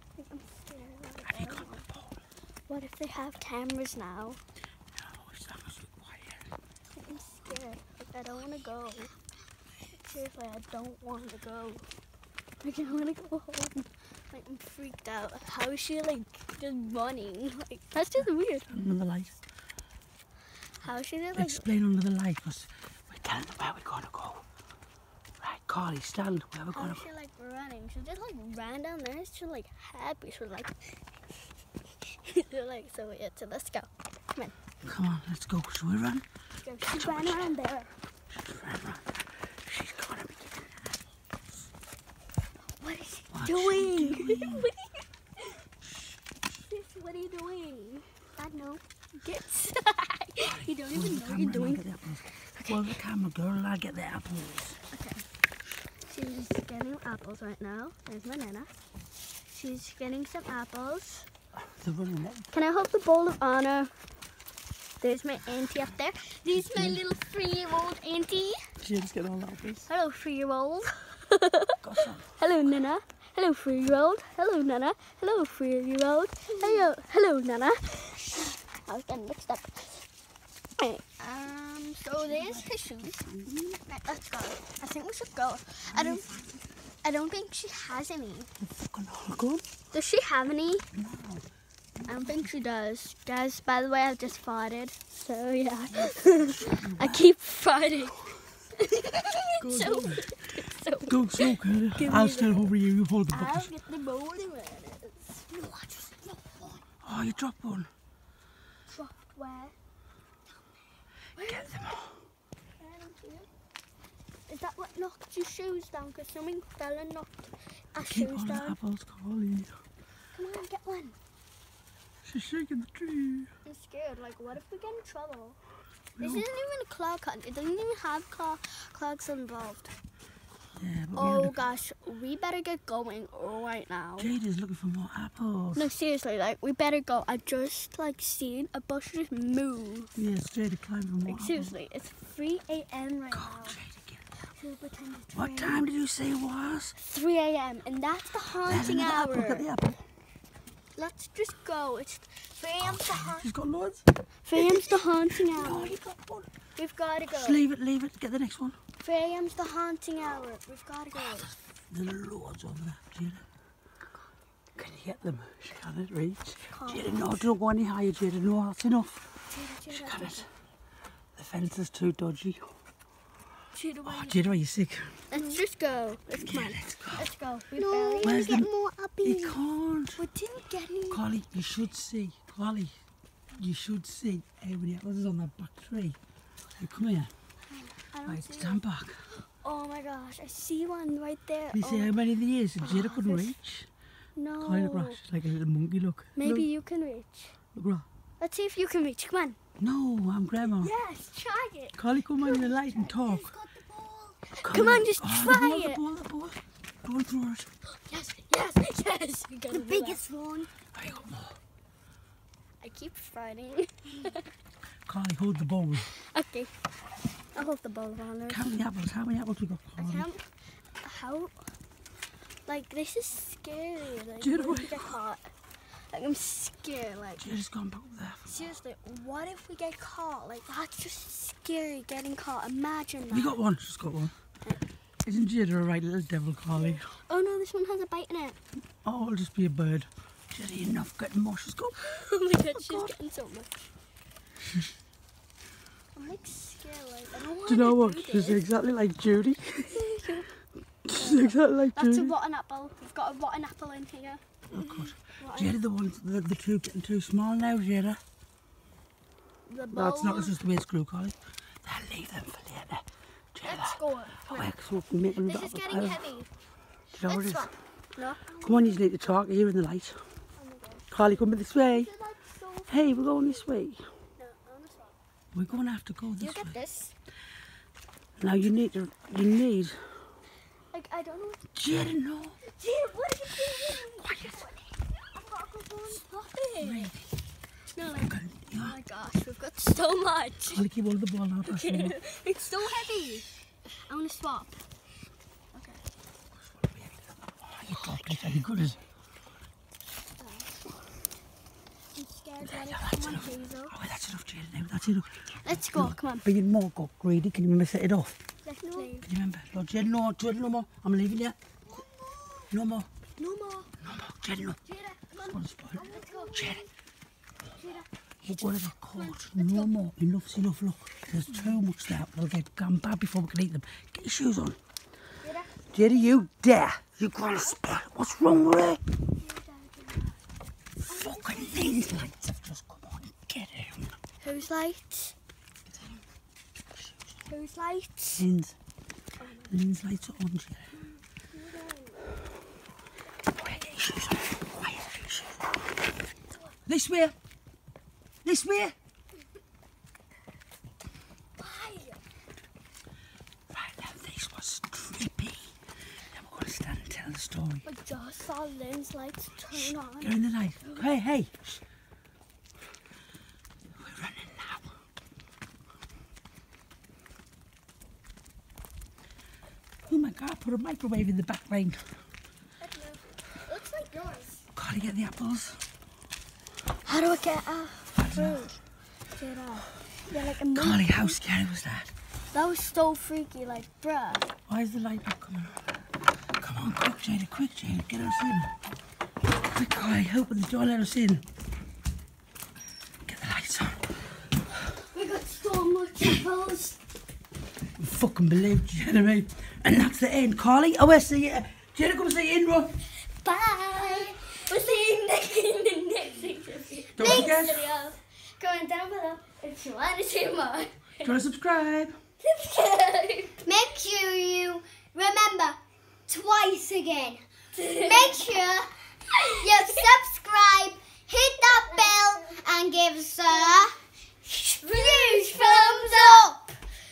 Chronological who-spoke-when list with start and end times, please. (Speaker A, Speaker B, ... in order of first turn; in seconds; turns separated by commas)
Speaker A: 0.1-1.9, Speaker B: 1.2-2.2, Speaker A: 2.7-4.4, Speaker B: 4.9-6.5, Speaker A: 6.9-9.1, Speaker A: 10.0-11.8, Speaker A: 12.6-18.8, Speaker B: 18.7-19.4, Speaker A: 20.8-21.7, Speaker B: 21.3-24.4, Speaker B: 25.4-27.1, Speaker A: 26.7-31.0, Speaker A: 32.0-34.5, Speaker B: 34.8-36.2, Speaker A: 36.6-38.0, Speaker B: 36.8-37.5, Speaker B: 38.3-41.0, Speaker A: 42.8-45.6, Speaker B: 43.3-44.7, Speaker A: 46.6-52.9, Speaker B: 50.4-54.8, Speaker A: 54.9-55.2, Speaker A: 56.0-58.7, Speaker A: 59.5-61.3, Speaker B: 61.5-62.5, Speaker A: 62.5-63.9, Speaker A: 65.0-68.6, Speaker B: 66.5-67.0, Speaker B: 68.8-69.9, Speaker A: 69.9-80.1, Speaker B: 71.8-72.3, Speaker A: 80.8-86.4, Speaker B: 82.2-83.5, Speaker B: 85.8-86.5, Speaker A: 87.0-88.5, Speaker B: 88.6-89.6, Speaker A: 89.9-90.8, Speaker B: 90.9-91.5, Speaker A: 92.0-102.7, Speaker B: 95.9-97.3, Speaker B: 99.6-103.7, Speaker A: 103.3-106.8, Speaker B: 107.0-107.9, Speaker A: 108.9-109.8, Speaker A: 111.3-111.9, Speaker B: 111.4-112.2, Speaker A: 112.8-113.5, Speaker A: 114.5-118.8, Speaker B: 118.0-119.8, Speaker A: 120.3-121.2, Speaker B: 122.2-123.5, Speaker A: 123.6-125.6, Speaker B: 126.2-126.5, Speaker A: 126.2-129.9, Speaker B: 130.8-131.7, Speaker A: 131.1-134.3, Speaker B: 134.2-135.9, Speaker A: 135.7-140.1, Speaker B: 140.1-141.8, Speaker A: 141.2-143.8, Speaker B: 143.3-144.3, Speaker A: 144.5-145.8, Speaker B: 145.3-146.9, Speaker A: 147.0-149.7, Speaker B: 148.6-150.0, Speaker A: 150.9-153.5, Speaker B: 152.8-156.5, Speaker A: 154.4-156.0, Speaker A: 156.8-157.6, Speaker B: 157.3-158.8, Speaker A: 159.0-161.5, Speaker B: 161.9-163.4, Speaker B: 164.8-169.2, Speaker A: 166.6-167.4, Speaker A: 169.5-170.5, Speaker B: 169.9-170.5, Speaker B: 171.3-172.8, Speaker A: 173.7-174.6, Speaker B: 174.0-175.2, Speaker A: 175.3-178.4, Speaker B: 176.3-177.3, Speaker C: 177.8-179.6, Speaker B: 178.2-178.7, Speaker B: 179.2-180.2, Speaker A: 180.2-181.2, Speaker B: 181.1-182.9, Speaker B: 183.5-186.2, Speaker B: 186.8-187.3, Speaker A: 187.7-188.8, Speaker B: 188.2-189.2, Speaker A: 189.4-192.1, Speaker B: 191.7-193.9, Speaker A: 192.8-193.5, Speaker A: 194.3-195.2, Speaker B: 194.6-196.7, Speaker A: 196.3-197.6, Speaker B: 197.7-198.0, Speaker A: 198.4-199.6, Speaker B: 199.8-200.9, Speaker A: 200.6-202.6, Speaker B: 201.9-203.6, Speaker C: 202.4-204.6, Speaker A: 204.6-206.0, Speaker B: 204.6-207.7, Speaker A: 207.9-210.2, Speaker C: 209.7-210.7, Speaker B: 210.9-211.6, Speaker A: 212.8-214.5, Speaker B: 215.1-216.1, Speaker A: 216.0-216.9, Speaker A: 217.5-218.7, Speaker B: 218.5-220.3, Speaker A: 220.0-221.7, Speaker A: 222.7-227.4, Speaker B: 224.4-225.1, Speaker B: 227.4-228.7, Speaker A: 228.4-233.6, Speaker B: 233.3-234.3, Speaker B: 235.2-237.2, Speaker A: 236.7-238.6, Speaker B: 239.0-242.0, Speaker A: 242.0-243.9, Speaker B: 242.7-243.1, Speaker A: 246.1-248.7, Speaker B: 247.7-250.1, Speaker A: 249.9-250.5, Speaker B: 251.0-252.3, Speaker A: 251.1-254.5, Speaker B: 254.7-258.2, Speaker A: 255.4-255.8, Speaker A: 259.6-260.6, Speaker B: 259.9-266.3, Speaker A: 263.6-264.7, Speaker A: 265.4-266.5, Speaker B: 267.1-267.7, Speaker A: 267.1-269.1, Speaker B: 268.6-270.2, Speaker A: 270.6-271.1, Speaker B: 271.1-272.1, Speaker A: 271.8-273.7, Speaker B: 272.9-274.0, Speaker A: 274.4-275.2, Speaker B: 275.5-276.8, Speaker A: 276.4-277.1, Speaker B: 278.4-280.0, Speaker A: 280.9-281.7, Speaker B: 281.7-282.6, Speaker A: 282.6-287.1, Speaker B: 283.6-284.7, Speaker B: 286.8-287.2, Speaker A: 287.9-290.8, Speaker B: 288.0-289.0, Speaker B: 290.7-292.2, Speaker A: 291.7-294.9, Speaker A: 295.7-296.0, Speaker B: 296.8-299.0, Speaker A: 300.4-300.9, Speaker A: 302.1-303.9, Speaker B: 302.6-308.3, Speaker A: 305.6-306.5, Speaker A: 308.6-309.3, Speaker B: 309.2-311.6, Speaker A: 311.9-312.5, Speaker C: 312.0-312.6, Speaker B: 312.7-313.1, Speaker A: 313.4-313.9, Speaker B: 314.0-314.8, Speaker A: 314.8-316.8, Speaker B: 315.4-316.9, Speaker C: 315.9-316.8, Speaker A: 317.8-318.0, Speaker B: 318.4-324.8, Speaker A: 319.1-319.9, Speaker A: 325.4-326.0, Speaker B: 325.9-329.0, Speaker A: 329.4-330.4, Speaker B: 331.1-334.1, Speaker A: 331.1-332.0, Speaker A: 334.4-335.3, Speaker A: 337.5-338.5, Speaker B: 338.4-338.7, Speaker A: 339.4-339.7, Speaker B: 339.7-340.9, Speaker A: 341.0-342.2, Speaker A: 343.5-343.9, Speaker B: 343.5-345.7, Speaker B: 346.9-347.3, Speaker B: 348.4-348.9, Speaker A: 351.6-352.2, Speaker B: 353.7-357.9, Speaker A: 357.8-361.0, Speaker B: 359.7-361.8, Speaker B: 363.9-364.9, Speaker B: 370.0-372.1, Speaker A: 372.8-374.6, Speaker B: 374.7-375.9, Speaker A: 377.0-378.8, Speaker B: 378.1-378.7, Speaker A: 379.3-381.4, Speaker B: 380.7-382.1, Speaker A: 382.5-384.5, Speaker B: 384.7-386.0, Speaker B: 386.5-388.7, Speaker B: 389.6-391.4, Speaker B: 393.2-394.2, Speaker A: 395.0-397.0, Speaker B: 397.9-403.0, Speaker A: 403.4-411.4, Speaker B: 407.2-407.9, Speaker C: 407.2-407.6, Speaker B: 411.2-412.1, Speaker A: 412.4-413.6, Speaker C: 413.6-417.4, Speaker A: 417.7-418.4, Speaker C: 417.9-418.9, Speaker A: 419.3-420.1, Speaker C: 419.4-424.0, Speaker A: 421.9-422.2, Speaker A: 424.4-426.5, Speaker C: 424.8-426.6